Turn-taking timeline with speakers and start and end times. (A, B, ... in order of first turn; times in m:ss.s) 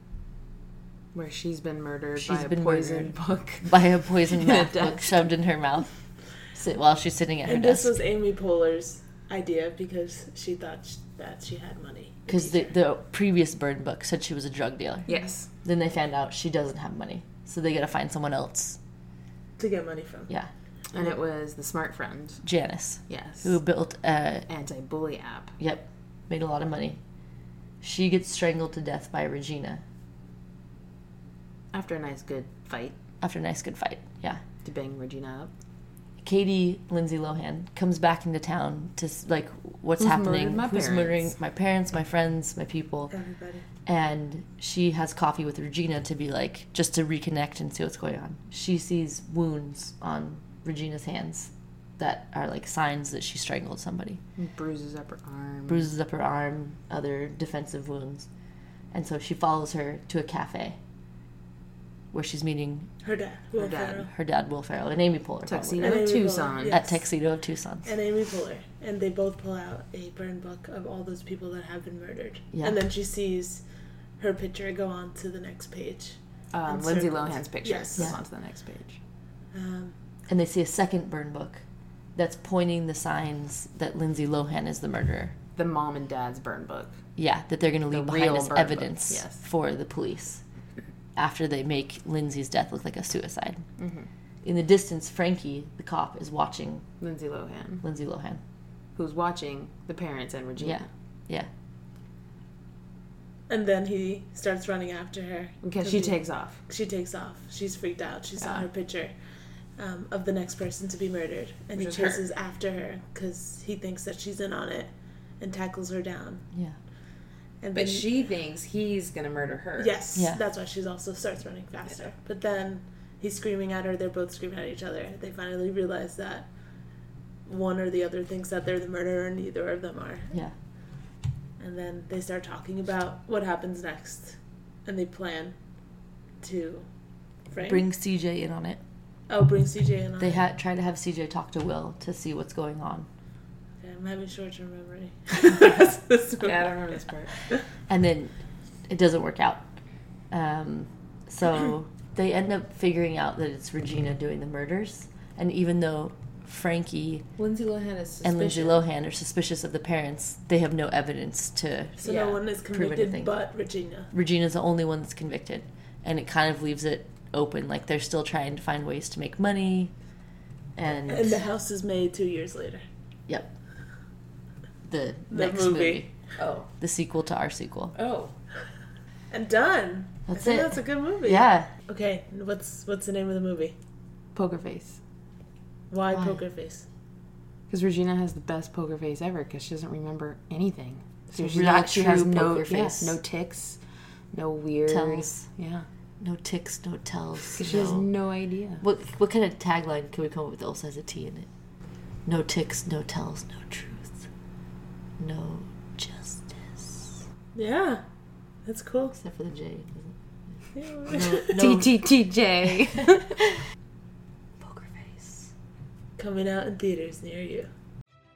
0:01.1-0:05.2 A
0:02.2-0:05.9 B
0:06.5-0:07.9 B
0:07.4-0:12.7 C
0:12.3-0:18.8 B
0:15.1-0:15.5 A
0:19.6-0:20.3 C
0:20.9-0:22.4 A
0:22.4-0:24.5 B
0:23.1-0:23.6 A
0:24.5-0:25.5 A
0:25.6-0:27.0 B
0:27.8-0:29.8 B
0:31.7-0:33.0 A
0:33.2-0:34.4 B
0:34.6-0:35.5 A
0:36.2-0:43.1 B
0:40.0-0:41.3 A
0:43.1-0:43.6 C
0:43.9-0:54.2 B
0:54.4-0:55.9 A
0:55.7-0:58.3 B
0:58.9-1:00.8 B
1:02.1-1:02.9 B
1:03.0-1:04.1 C
1:03.6-1:04.1 A
1:04.1-1:06.1 B
1:05.5-1:06.8 A
1:05.8-1:06.9 C
1:06.7-1:07.9 B
1:07.9-1:13.6 C
1:12.5-1:12.8 B
1:14.2-1:18.1 C
1:16.5-1:19.0 A
1:19.5-1:20.0 C
1:20.3-1:21.6 B
1:22.2-1:25.4 B
1:25.6-1:27.0 A
1:27.2-1:30.4 B
1:27.9-1:29.4 A
1:31.2-1:33.7 B
1:33.8-1:34.1 A
1:34.4-1:36.9 B
1:37.0-1:37.8 A
1:37.8-1:38.4 B
1:39.0-1:40.9 A
1:40.6-1:41.5 B
1:43.5-1:49.1 C
1:45.6-1:46.6 A
1:48.4-1:48.7 A
1:49.8-1:56.4 C
1:51.8-1:52.2 A
1:56.5-1:56.8 B
1:57.6-1:58.1 C
1:57.7-2:00.0 A
1:59.8-2:06.5 C
2:00.1-2:00.4 B
2:07.5-2:10.3 C
2:11.6-2:15.6 C
2:16.4-2:16.9 C
2:17.5-2:17.8 C
2:17.7-2:18.8 B
2:19.3-2:20.4 C
2:20.2-2:23.1 B
2:23.8-2:27.6 C
2:26.4-2:27.3 A
2:27.9-2:28.3 B
2:28.9-2:29.6 B
2:30.3-2:37.3 B
2:37.4-2:38.8 A
2:38.2-2:43.3 B
2:42.0-2:44.1 C
2:42.1-2:42.3 A
2:44.1-2:49.9 B
2:50.8-2:51.4 B
2:51.1-2:52.8 C
2:54.9-2:56.1 B
2:55.3-2:56.1 C
2:56.4-2:56.7 A
2:56.8-2:57.9 B
2:58.0-2:58.3 A
2:59.3-3:03.8 C
3:00.3-3:01.7 B
3:04.4-3:05.0 A
3:05.9-3:06.8 C
3:07.7-3:13.8 A
3:11.4-3:13.2 B
3:14.3-3:15.9 A
3:14.9-3:15.4 B
3:16.2-3:18.1 B
3:17.6-3:18.8 A
3:18.8-3:21.5 B
3:22.3-3:24.2 B
3:25.2-3:27.2 B
3:27.6-3:28.0 C
3:28.6-3:29.1 C
3:29.1-3:30.1 B
3:30.8-3:31.7 C
3:31.1-3:32.0 B
3:31.5-3:33.4 A
3:32.7-3:33.6 B
3:34.6-3:35.5 B
3:36.2-3:37.7 C